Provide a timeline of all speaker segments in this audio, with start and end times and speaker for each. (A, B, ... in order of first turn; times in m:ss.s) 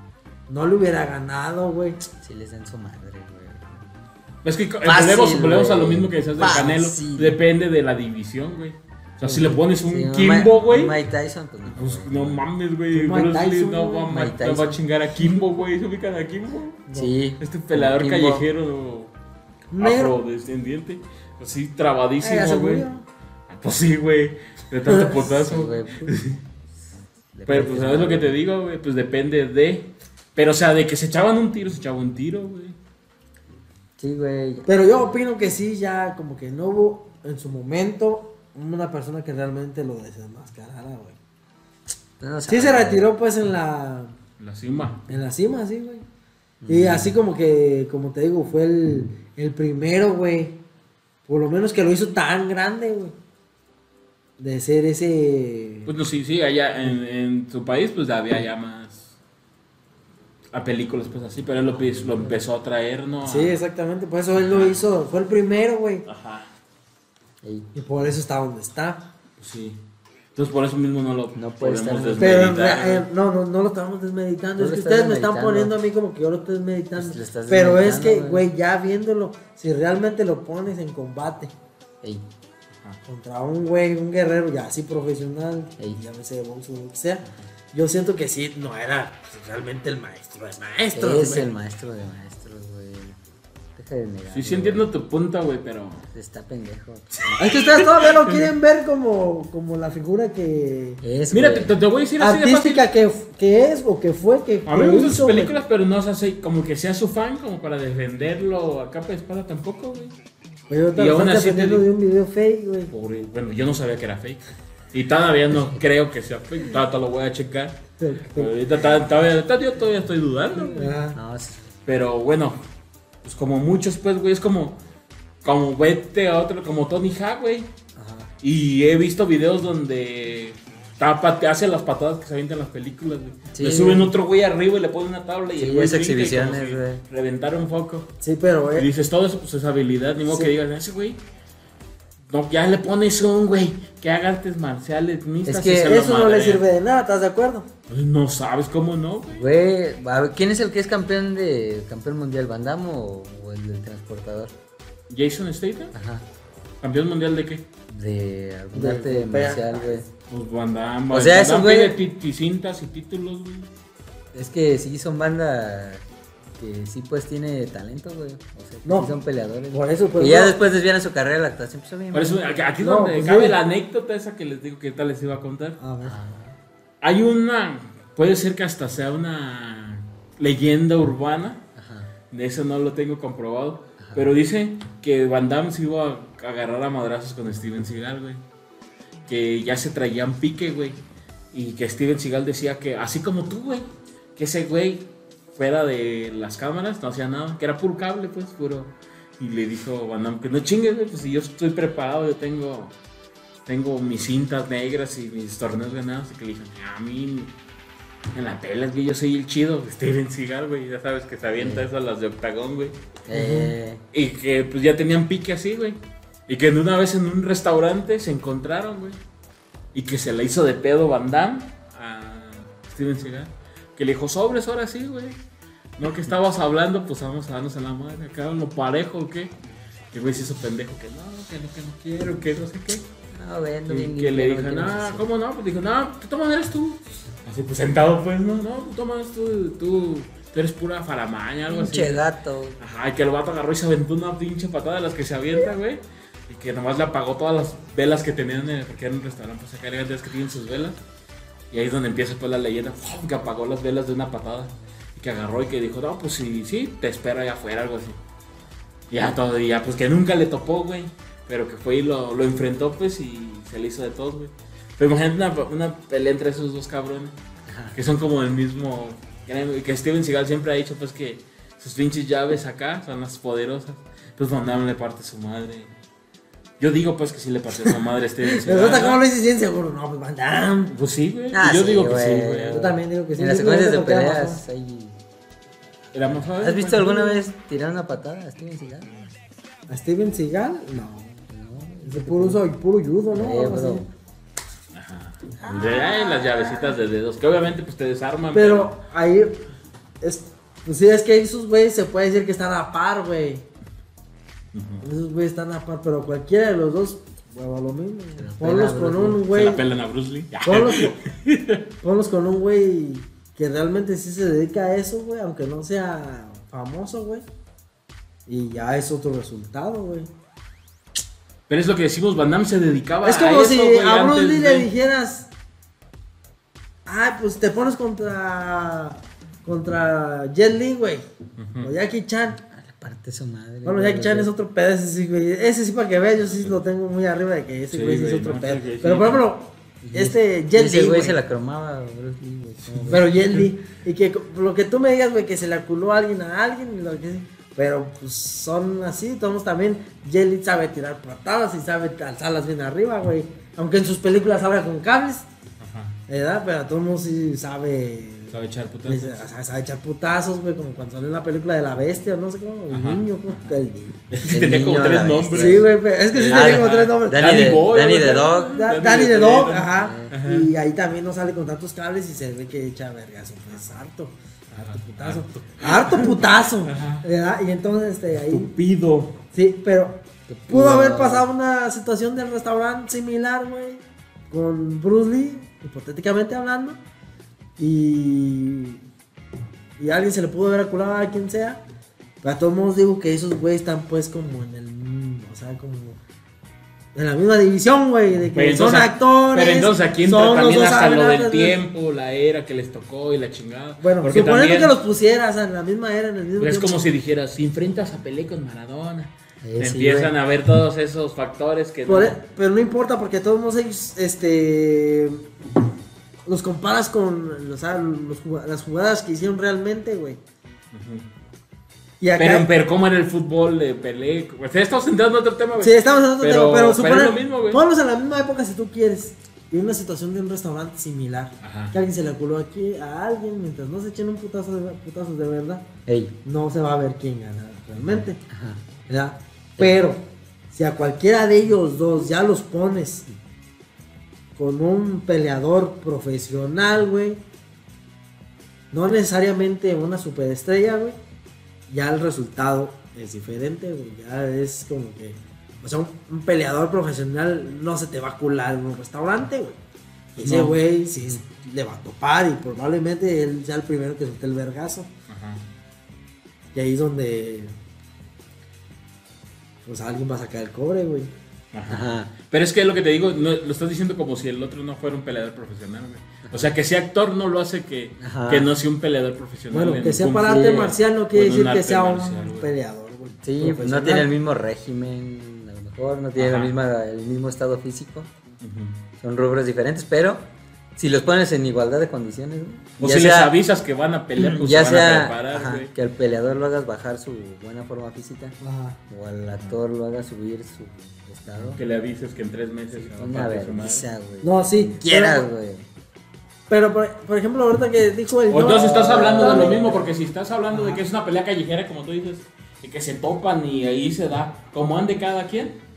0:00.5-0:02.0 A
0:02.2-0:03.8 B
0:04.4-0:11.0 C
0:04.8-0:07.4 B
0:09.2-0:12.4 B
0:11.7-0:16.8 C
0:12.9-0:14.1 A
0:14.1-0:14.8 B
0:16.9-0:17.1 A
0:16.9-0:18.4 B
0:17.4-0:19.1 C
0:19.7-0:20.1 A
0:19.8-0:22.9 C
0:22.2-0:23.0 A
0:23.5-0:26.4 C
0:25.1-0:26.1 B
0:27.3-0:28.3 B
0:27.4-0:32.8 C
0:34.0-0:35.2 B
0:34.6-0:41.2 A
0:42.2-0:43.0 B
0:42.5-0:44.1 A
0:44.4-0:45.0 C
0:45.1-0:46.0 A
0:46.6-0:47.1 B
0:46.7-0:50.6 A
0:51.2-0:53.1 A
0:54.4-0:55.9 A
0:55.8-0:59.1 C
1:00.5-1:03.6 C
1:01.8-1:02.3 B
1:03.2-1:06.0 A
1:04.4-1:04.8 C
1:06.0-1:06.5 C
1:07.4-1:07.7 B
1:07.7-1:09.0 A
1:09.4-1:09.8 C
1:10.4-1:13.0 C
1:11.3-1:12.7 B
1:12.2-1:21.5 A
1:14.6-1:15.7 B
1:16.9-1:18.4 B
1:23.0-1:31.5 A
1:30.9-1:33.2 B
1:33.7-1:34.8 B
1:34.3-1:36.1 C
1:36.1-1:37.2 B
1:37.1-1:38.4 C
1:37.4-1:41.0 A
1:41.0-1:41.7 B
1:41.3-1:42.8 C
1:42.2-1:45.5 A
1:44.6-1:50.1 C
1:50.7-1:52.9 A
1:50.9-1:51.8 C
1:52.9-1:54.4 C
1:54.9-1:57.8 C
1:58.0-1:58.5 A
1:58.3-2:01.0 C
2:00.7-2:01.2 A
2:01.1-2:01.6 B
2:01.8-2:02.6 C
2:03.2-2:04.8 C
2:05.4-2:07.7 C
2:08.0-2:08.3 B
2:08.4-2:18.1 C
2:13.5-2:14.1 B
2:15.5-2:17.0 B
2:18.2-2:18.9 A
2:18.7-2:21.2 C
2:22.3-2:26.6 C
2:25.4-2:26.0 B
2:25.8-2:27.7 A
2:27.9-2:29.4 C
2:29.3-2:34.5 B
2:35.1-2:35.9 C
2:35.9-2:36.2 B
2:36.8-2:37.6 C
2:37.9-2:40.0 B
2:38.7-2:40.0 A
2:40.3-2:43.7 C
2:41.1-2:42.0 B
2:44.3-2:46.0 B
2:46.6-2:52.4 B
2:48.8-2:49.2 A
2:49.7-2:50.6 A
2:52.1-2:55.8 C
2:52.8-2:53.6 A
2:55.8-2:56.2 A
2:56.0-2:56.6 B
2:57.0-3:01.6 C
3:01.8-3:02.1 B
3:02.3-3:08.4 C
3:04.0-3:04.3 B
3:09.3-3:11.0 C
3:11.5-3:22.9 C
3:23.7-3:27.5 C
3:28.3-3:33.0 C
3:31.6-3:31.8 B
3:33.2-3:34.0 B
3:33.3-3:33.7 A
3:34.1-3:36.0 C
3:36.5-3:39.2 C
3:39.9-3:45.4 C
3:46.0-3:49.5 C
3:50.1-3:53.0 C
3:53.3-3:55.2 B
3:53.9-4:02.2 C
4:01.7-4:02.8 B
4:02.8-4:11.0 C
4:11.7-4:18.2 C
4:19.1-4:27.3 C
4:27.7-4:28.0 B
4:27.9-4:35.9 C
4:36.8-4:39.2 C
4:38.5-4:40.9 A
4:40.9-4:42.9 C
4:41.5-4:45.2 B
4:42.7-4:44.6 A
4:46.1-4:47.0 C
4:46.5-4:49.1 B
4:46.8-4:47.4 A
4:49.9-4:51.4 A
4:51.5-4:52.6 B
4:52.0-4:54.0 A
4:53.3-4:54.1 B
4:54.9-4:58.9 C
4:55.6-4:57.0 A
4:58.5-4:59.6 A
5:00.2-5:03.6 A
5:04.7-5:05.0 C
5:05.0-5:09.8 A
5:08.4-5:09.7 B
5:09.5-5:11.8 C
5:10.6-5:11.2 A
5:12.0-5:17.4 A
5:18.5-5:20.3 A
5:21.7-5:24.9 C
5:23.2-5:25.5 A
5:27.0-5:31.2 A
5:31.6-5:31.9 C
5:31.8-5:32.6 A
5:32.7-5:34.5 B
5:33.8-5:41.4 A
5:37.9-5:39.4 C
5:40.0-5:43.3 B
5:42.8-5:43.7 C
5:43.0-5:55.5 A
5:55.8-5:56.2 C
5:56.3-6:04.2 A
5:58.5-5:59.4 C
6:02.9-6:03.8 C
6:04.3-6:10.7 C
6:04.4-6:05.9 B
6:05.5-6:07.7 A
6:06.4-6:08.8 B
6:08.7-6:14.3 A
6:10.0-6:10.3 B
6:14.7-6:17.2 C
6:14.8-6:18.7 A
6:18.5-6:19.4 C
6:19.5-6:27.0 A
6:20.5-6:21.4 B
6:27.8-6:29.0 A
6:30.0-6:31.8 A
6:32.4-6:36.2 A
6:37.1-6:41.8 A
6:38.5-6:45.0 C
6:44.0-6:47.0 A
6:46.6-6:52.4 C
6:49.6-6:50.3 B
6:52.0-6:55.5 A
6:56.4-7:00.4 A
7:00.9-7:01.2 C
7:02.2-7:02.7 A
7:02.4-7:07.8 C
7:05.8-7:15.9 A
7:11.6-7:11.9 C
7:16.1-7:16.3 B
7:16.4-7:18.4 A
7:18.5-7:18.8 B
7:19.1-7:23.3 A
7:24.6-7:27.4 A
7:28.9-7:31.2 A
7:31.9-7:39.8 A
7:40.4-7:45.1 A
7:40.4-7:40.8 C
7:45.3-7:45.6 C
7:46.7-7:47.7 A
7:49.8-7:51.3 A
7:51.7-8:02.7 C
7:51.9-7:52.3 B
7:56.4-7:56.7 B
7:58.2-7:58.7 B
7:59.7-8:04.3 A
8:00.4-8:00.9 B
8:03.4-8:08.3 B
8:06.4-8:06.7 C
8:08.6-8:09.0 C
8:09.2-8:10.4 B
8:11.0-8:13.5 B
8:13.0-8:15.9 C
8:14.4-8:21.8 B
8:18.6-8:19.0 A
8:21.5-8:24.0 C
8:23.0-8:25.8 B
8:24.4-8:25.4 A
8:26.7-8:30.1 A
8:28.5-8:35.8 C
8:29.5-8:29.7 B
8:30.7-8:31.0 A